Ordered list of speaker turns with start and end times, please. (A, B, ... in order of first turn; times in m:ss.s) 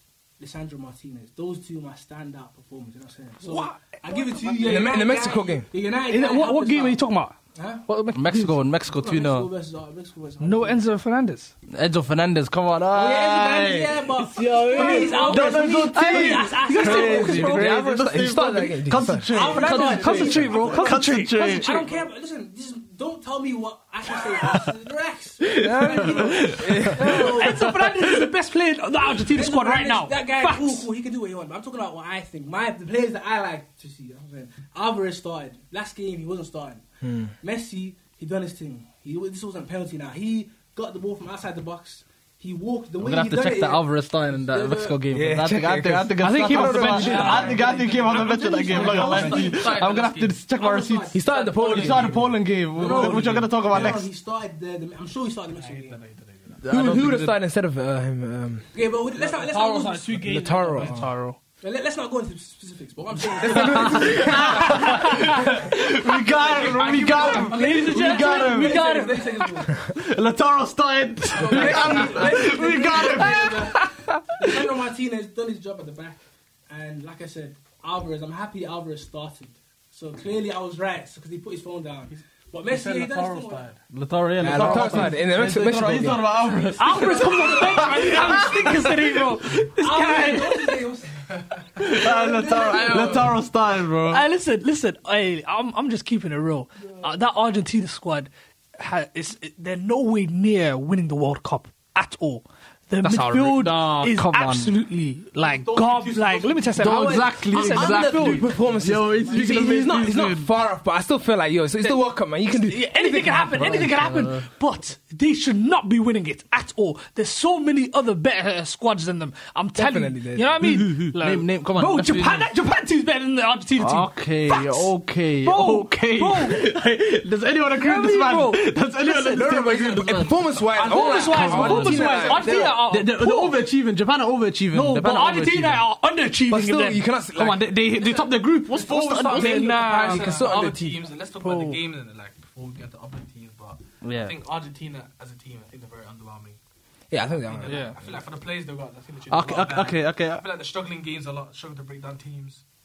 0:00.4-0:07.0 A
0:03.4-0:04.9 B
0:04.6-0:05.7 C
0:06.0-0:08.5 B
0:07.6-0:07.8 A
0:08.1-0:09.5 D
0:08.9-0:10.8 A
0:10.4-0:11.5 B
0:11.7-0:21.8 D
0:12.9-0:17.5 A
0:14.7-0:17.9 B
0:16.9-0:19.6 C
0:19.3-0:27.8 A
0:19.5-0:21.8 B
0:25.5-0:27.6 C
0:26.0-0:27.2 D
0:26.9-0:30.9 B
0:29.3-0:36.8 A
0:37.0-0:37.3 C
0:37.4-0:43.9 A
0:43.0-0:54.1 D
0:44.5-0:45.0 A
0:45.1-0:47.6 C
0:46.2-0:47.7 B
0:47.0-0:50.4 E
0:47.2-0:49.6 A
0:50.6-0:52.2 A
0:51.1-0:52.2 C
0:51.5-0:53.9 E
0:52.7-0:56.0 A
0:55.6-0:56.3 E
0:56.6-0:57.4 D
0:56.7-0:58.7 C
0:58.7-1:00.9 A
0:59.2-1:00.0 E
0:59.5-1:01.4 B
1:00.2-1:01.1 C
1:01.6-1:05.6 A
1:03.4-1:04.8 C
1:03.5-1:08.9 D
1:04.6-1:05.6 B
1:06.3-1:08.0 E
1:07.1-1:09.9 A
1:07.1-1:09.7 B
1:09.9-1:13.7 D
1:11.4-1:23.7 A
1:11.5-1:12.4 E
1:11.5-1:12.3 C
1:13.2-1:14.6 B
1:22.7-1:29.0 D
1:22.7-1:23.7 E
1:24.4-1:26.3 C
1:24.5-1:25.0 A
1:26.6-1:28.1 E
1:26.7-1:30.8 B
1:27.2-1:28.4 A
1:29.6-1:31.2 A
1:31.3-1:33.4 E
1:31.8-1:34.2 D
1:31.8-1:33.2 A
1:34.0-1:48.4 B
1:43.0-1:44.7 D
1:45.4-1:47.0 E
1:46.8-1:50.5 D
1:46.8-1:53.9 C
1:52.5-2:04.9 B
1:53.5-1:54.4 D
1:59.8-2:00.6 C
2:00.6-2:02.5 D
2:03.8-2:15.8 D
2:05.4-2:06.7 B
2:07.8-2:09.5 B
2:09.3-2:12.8 C
2:10.7-2:12.5 E
2:10.8-2:13.6 B
2:14.7-2:17.0 B
2:16.5-2:17.6 C
2:17.4-2:20.0 D
2:18.0-2:26.6 E
2:19.3-2:21.0 C
2:19.6-2:20.5 B
2:21.4-2:21.8 B
2:24.0-2:24.3 D
2:27.1-2:28.0 C
2:27.3-2:32.6 E
2:27.7-2:28.0 B
2:29.3-2:30.4 D